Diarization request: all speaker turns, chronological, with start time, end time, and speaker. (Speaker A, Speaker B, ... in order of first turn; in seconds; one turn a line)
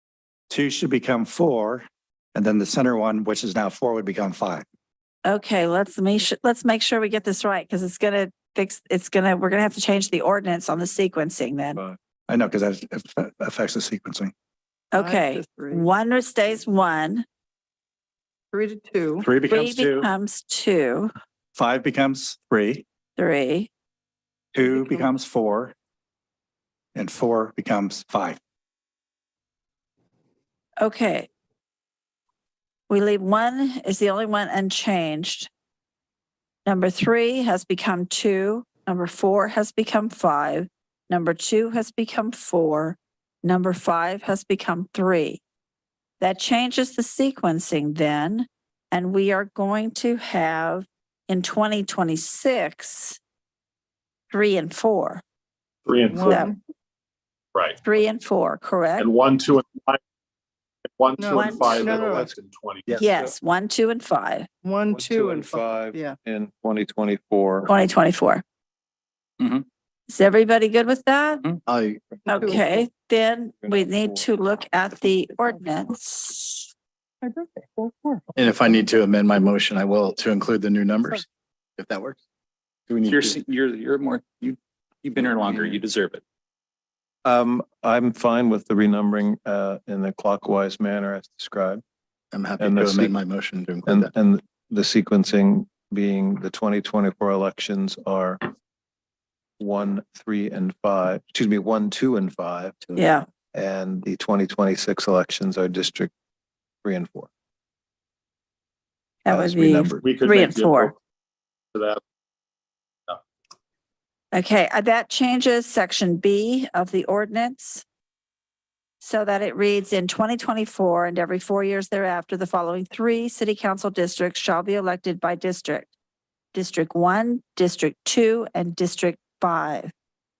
Speaker A: 0.5-4.7
Speaker B: 5.2-11.8
Speaker A: 12.3-14.3
Speaker B: 14.9-17.2
Speaker C: 14.9-15.8
Speaker C: 18.5-19.3
Speaker A: 19.2-20.1
Speaker B: 19.4-21.1
Speaker A: 21.5-22.8
Speaker B: 23.2-23.7
Speaker A: 24.5-25.7
Speaker C: 24.6-25.0
Speaker A: 26.9-28.4
Speaker B: 30.8-31.3
Speaker B: 32.9-35.5
Speaker B: 36.6-45.4
Speaker B: 46.2-53.2
Speaker B: 54.3-55.2
Speaker D: 55.9-56.3
Speaker C: 56.1-56.6
Speaker B: 56.2-56.5
Speaker B: 57.8-59.1
Speaker D: 59.0-60.0
Speaker D: 61.0-63.0
Speaker C: 61.2-62.3
Speaker B: 61.3-61.9
Speaker E: 61.6-62.3
Speaker B: 63.0-64.5
Speaker C: 64.6-66.2
Speaker E: 64.9-67.7
Speaker B: 67.7-68.4
Speaker B: 70.1-71.4
Speaker F: 71.7-72.5
Speaker B: 72.3-76.7
Speaker C: 72.3-72.9
Speaker E: 73.6-74.2
Speaker C: 77.2-78.1
Speaker F: 78.3-81.2
Speaker F: 81.8-82.2
Speaker F: 82.9-83.3
Speaker G: 83.0-86.2
Speaker E: 87.2-91.8
Speaker F: 92.3-94.1
Speaker E: 92.6-93.1
Speaker E: 93.8-98.4
Speaker E: 99.6-102.8
Speaker B: 103.0-103.2
Speaker E: 103.5-106.1
Speaker E: 106.8-107.3
Speaker B: 109.2-110.9
Speaker E: 109.3-110.0
Speaker D: 110.0-110.9
Speaker B: 114.3-117.8
Speaker B: 119.0-125.9
Speaker B: 126.5-129.9